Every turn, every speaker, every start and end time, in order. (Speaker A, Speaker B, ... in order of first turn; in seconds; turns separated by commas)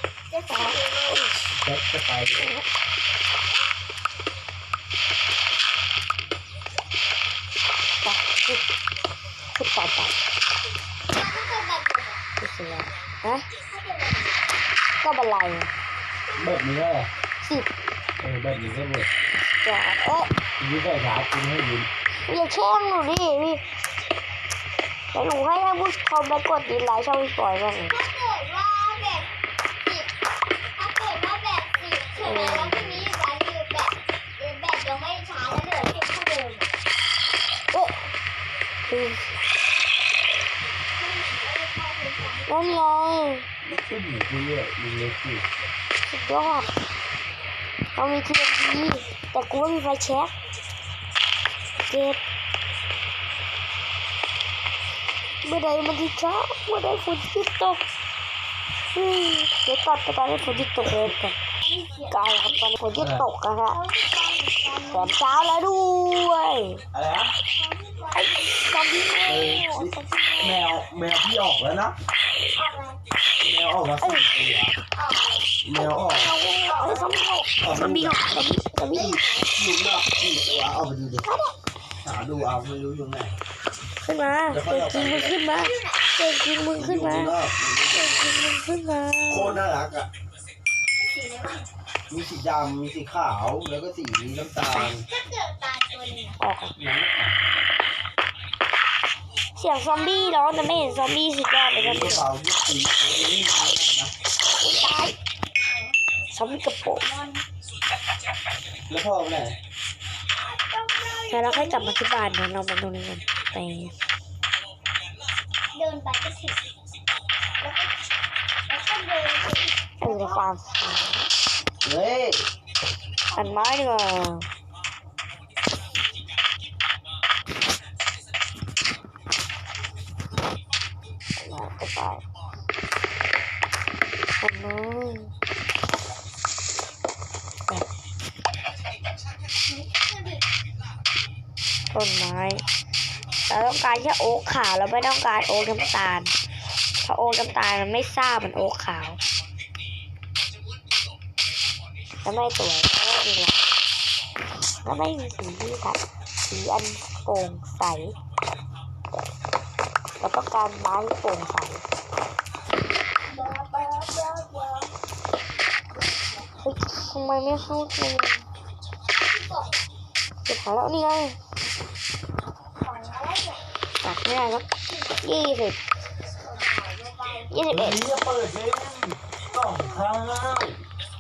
Speaker A: 0.3-1.3, Speaker B: 0.5-1.3, Speaker C: 1.6-2.5, Speaker B: 2.4-2.6, Speaker B: 8.0-8.6, Speaker B: 9.5-10.2, Speaker A: 11.1-12.2, Speaker B: 12.4-13.5, Speaker A: 13.7-14.5, Speaker B: 15.0-15.7, Speaker C: 16.4-17.1, Speaker B: 17.4-17.8, Speaker C: 18.2-19.1, Speaker B: 19.5-20.3, Speaker C: 20.6-21.9, Speaker B: 22.2-23.6, Speaker B: 25.1-28.0, Speaker A: 27.9-30.1, Speaker A: 30.7-36.8, Speaker B: 32.2-33.1, Speaker B: 37.7-38.0, Speaker B: 38.9-39.4, Speaker A: 40.9-42.8, Speaker B: 42.5-43.5, Speaker C: 43.7-45.5, Speaker B: 46.0-46.7, Speaker B: 47.9-50.3, Speaker B: 51.9-52.2, Speaker B: 55.4-57.8, Speaker B: 58.9-61.4, Speaker A: 61.6-62.6, Speaker B: 62.1-63.8, Speaker C: 63.0-63.2, Speaker A: 63.7-65.3, Speaker B: 64.9-66.8, Speaker C: 66.9-67.3, Speaker A: 67.5-68.7, Speaker B: 68.1-70.7, Speaker C: 69.2-71.9, Speaker A: 72.5-73.0, Speaker C: 73.4-74.7, Speaker B: 74.0-74.3, Speaker A: 74.9-75.5, Speaker C: 75.6-76.3, Speaker B: 76.0-79.1, Speaker A: 76.6-77.2, Speaker C: 77.6-78.2, Speaker A: 78.9-79.5, Speaker C: 78.9-81.3, Speaker C: 82.0-83.4, Speaker B: 84.0-89.6, Speaker C: 84.5-85.4, Speaker A: 85.5-86.1, Speaker C: 86.7-88.2, Speaker C: 89.3-90.1, Speaker A: 91.0-91.7, Speaker C: 92.1-95.0, Speaker B: 94.6-94.9, Speaker A: 95.1-96.4, Speaker B: 96.4-96.8, Speaker C: 96.8-97.4, Speaker B: 99.5-102.3, Speaker A: 99.9-101.0, Speaker C: 101.7-104.1, Speaker B: 104.6-105.1, Speaker A: 105.5-106.1, Speaker B: 106.3-107.1, Speaker A: 107.0-107.5, Speaker C: 108.8-109.6, Speaker A: 110.4-112.0, Speaker B: 111.3-114.0, Speaker A: 115.7-116.7, Speaker A: 117.6-117.9, Speaker A: 118.7-120.5, Speaker B: 120.0-121.3, Speaker C: 121.8-122.5, Speaker B: 123.3-124.5, Speaker B: 131.4-132.2, Speaker B: 134.4-135.3, Speaker A: 139.6-140.4, Speaker B: 141.9-142.6, Speaker B: 143.5-146.3, Speaker B: 147.0-149.2, Speaker B: 152.2-153.7, Speaker B: 154.7-158.2, Speaker B: 160.2-161.8, Speaker A: 163.3-164.9, Speaker A: 165.9-166.5, Speaker B: 166.6-168.4, Speaker A: 169.2-169.9, Speaker B: 170.4-171.4, Speaker A: 172.8-173.7, Speaker B: 174.0-174.7, Speaker A: 174.8-175.4, Speaker B: 175.2-175.8, Speaker A: 176.2-177.6, Speaker B: 177.5-178.0, Speaker C: 177.7-180.8